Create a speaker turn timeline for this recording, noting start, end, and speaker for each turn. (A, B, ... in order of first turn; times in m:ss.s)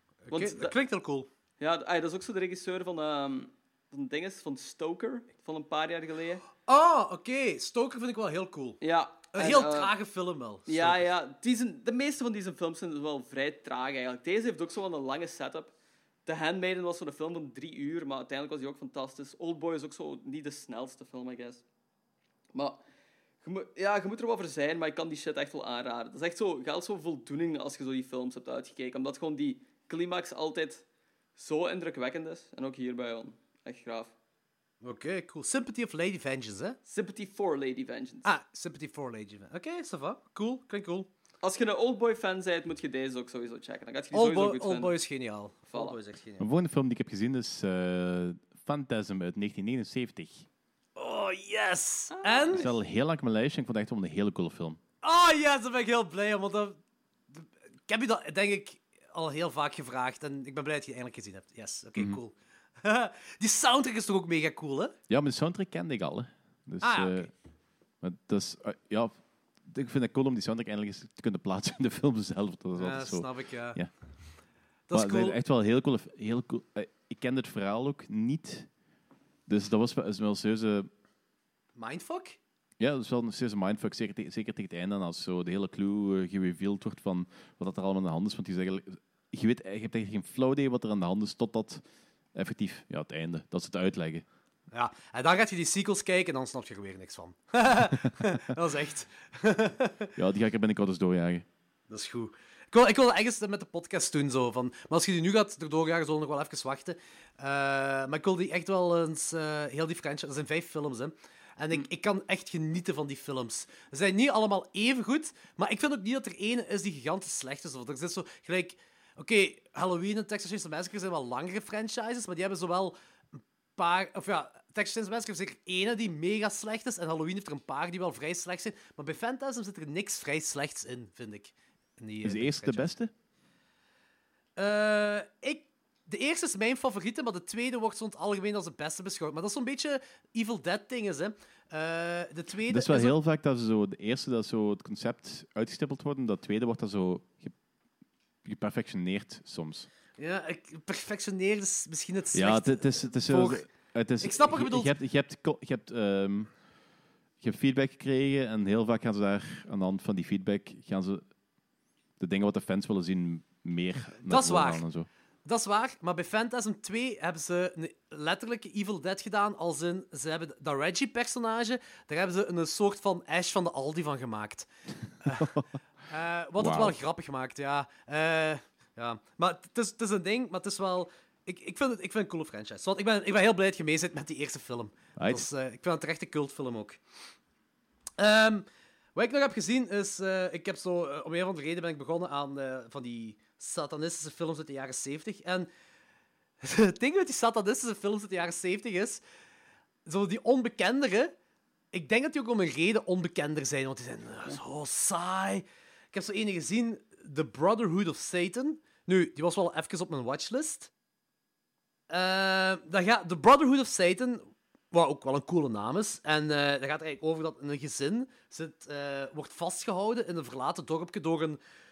0:00.3-0:01.3 A
0:00.3-0:00.8 B
0:01.6-0:06.4 B
0:06.7-0:08.8 A
0:08.8-0:09.9 B
0:09.3-0:11.0 A
0:10.7-0:15.7 B
0:16.3-0:21.6 B
0:22.5-0:22.8 B
0:23.4-0:30.8 B
0:31.4-0:34.1 B
0:34.8-0:36.8 A
0:36.9-0:38.3 B
0:38.2-0:41.1 A
0:41.4-0:45.0 B
0:44.1-0:46.5 A
0:45.7-0:46.0 B
0:46.4-0:50.5 C
0:51.0-0:52.7 A
0:52.1-0:52.7 B
0:52.6-0:54.8 C
0:55.0-0:56.8 A
0:57.3-1:05.0 A
1:05.1-1:07.3 C
1:06.8-1:07.3 A
1:08.0-1:13.9 C
1:12.8-1:13.8 A
1:14.9-1:15.4 A
1:14.9-1:18.7 C
1:19.5-1:20.9 C
1:21.8-1:22.4 A
1:22.8-1:34.2 C
1:34.7-1:40.1 A
1:40.2-1:41.5 C
1:41.9-2:12.9 A
2:12.2-2:13.1 C
2:14.6-2:23.2 A
2:22.7-2:27.5 C
2:28.4-2:29.9 C
2:30.2-2:34.9 A
2:32.3-2:36.5 C
2:37.4-2:41.2 C
2:42.2-2:45.1 C
2:44.2-2:44.8 A
2:45.4-2:54.7 A
2:55.2-2:55.6 A
2:55.4-2:55.6 C
2:56.1-3:07.0 A
2:56.6-2:57.0 C
3:05.2-3:05.5 C
3:08.2-3:15.7 A
3:16.6-3:19.2 A
3:20.1-3:21.3 A
3:21.9-3:30.9 A
3:32.1-3:41.6 A